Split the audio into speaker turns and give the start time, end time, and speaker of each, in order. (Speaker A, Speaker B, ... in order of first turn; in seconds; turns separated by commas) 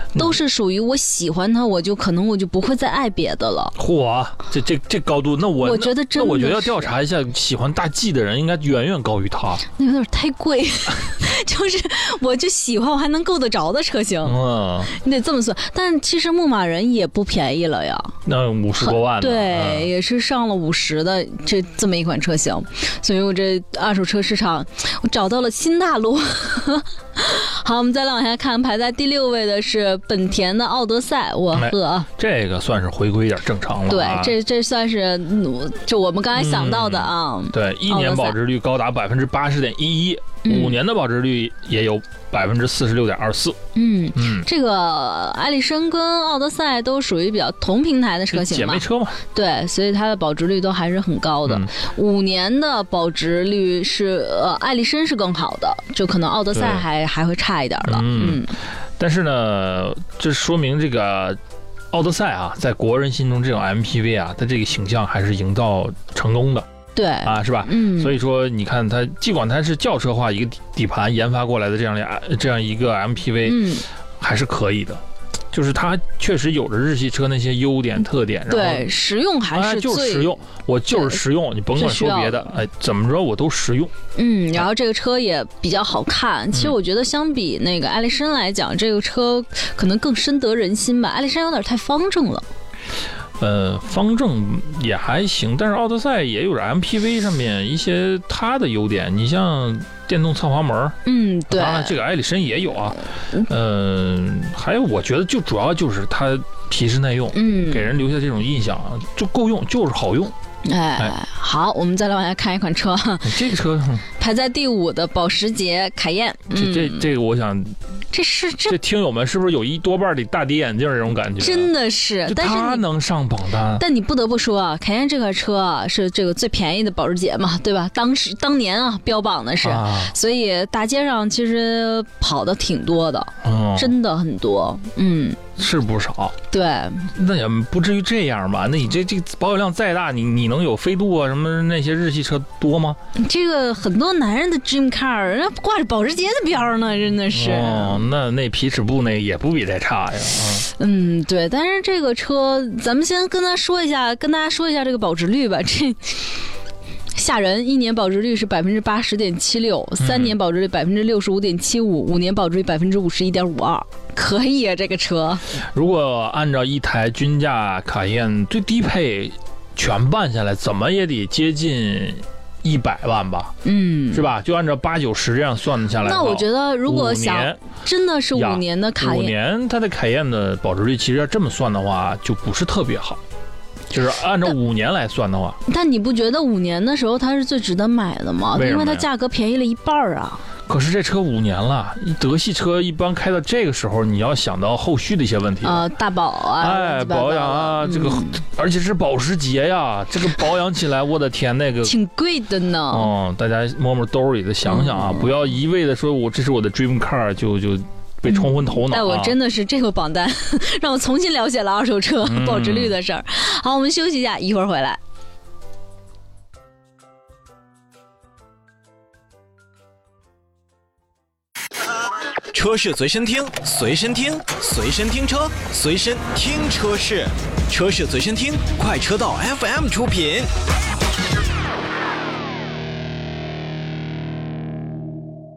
Speaker A: 0.1-3.7, Speaker B: 3.8-9.6, Speaker A: 5.6-6.9, Speaker A: 9.7-18.1, Speaker B: 14.2-14.9, Speaker B: 18.2-19.9, Speaker A: 18.8-32.1, Speaker B: 31.5-34.4, Speaker A: 33.9-38.4, Speaker B: 36.3-43.6, Speaker A: 40.4-40.8, Speaker A: 43.7-58.5, Speaker B: 44.1-44.5, Speaker B: 48.3-49.2, Speaker B: 51.5-51.7, Speaker B: 56.5-56.8, Speaker B: 57.9-61.4, Speaker B: 61.9-66.7, Speaker A: 66.9-68.2, Speaker B: 67.2-75.0, Speaker A: 73.4-73.8, Speaker B: 75.5-78.9, Speaker A: 78.5-80.3, Speaker B: 79.5-83.9, Speaker A: 80.9-81.2, Speaker A: 81.7-82.5, Speaker A: 84.1-92.4, Speaker B: 93.4-101.0, Speaker A: 101.0-102.0, Speaker B: 101.5-110.3, Speaker A: 107.3-107.9, Speaker A: 110.6-113.4, Speaker B: 113.2-114.0, Speaker A: 114.2-117.1, Speaker B: 116.5-117.8, Speaker A: 118.1-118.8, Speaker B: 118.7-121.7, Speaker A: 121.3-122.8, Speaker B: 122.3-123.8, Speaker A: 123.8-135.4, Speaker B: 129.6-130.1, Speaker B: 133.4-133.9, Speaker B: 135.6-136.3, Speaker A: 136.5-137.1, Speaker B: 137.1-143.0, Speaker A: 143.1-148.1, Speaker B: 147.3-150.7, Speaker A: 150.8-156.4, Speaker A: 157.1-165.4, Speaker B: 160.0-160.4, Speaker B: 165.6-173.5, Speaker A: 173.6-174.3, Speaker B: 174.1-177.6, Speaker A: 176.0-179.3, Speaker B: 178.3-183.2, Speaker B: 183.9-185.6, Speaker A: 185.6-190.4, Speaker B: 188.5-189.1, Speaker B: 190.7-195.9, Speaker A: 195.6-198.4, Speaker B: 196.6-201.9, Speaker A: 201.8-203.1, Speaker B: 202.9-209.3, Speaker A: 204.6-205.3, Speaker A: 208.2-215.0, Speaker B: 212.2-212.9, Speaker C: 222.5-230.5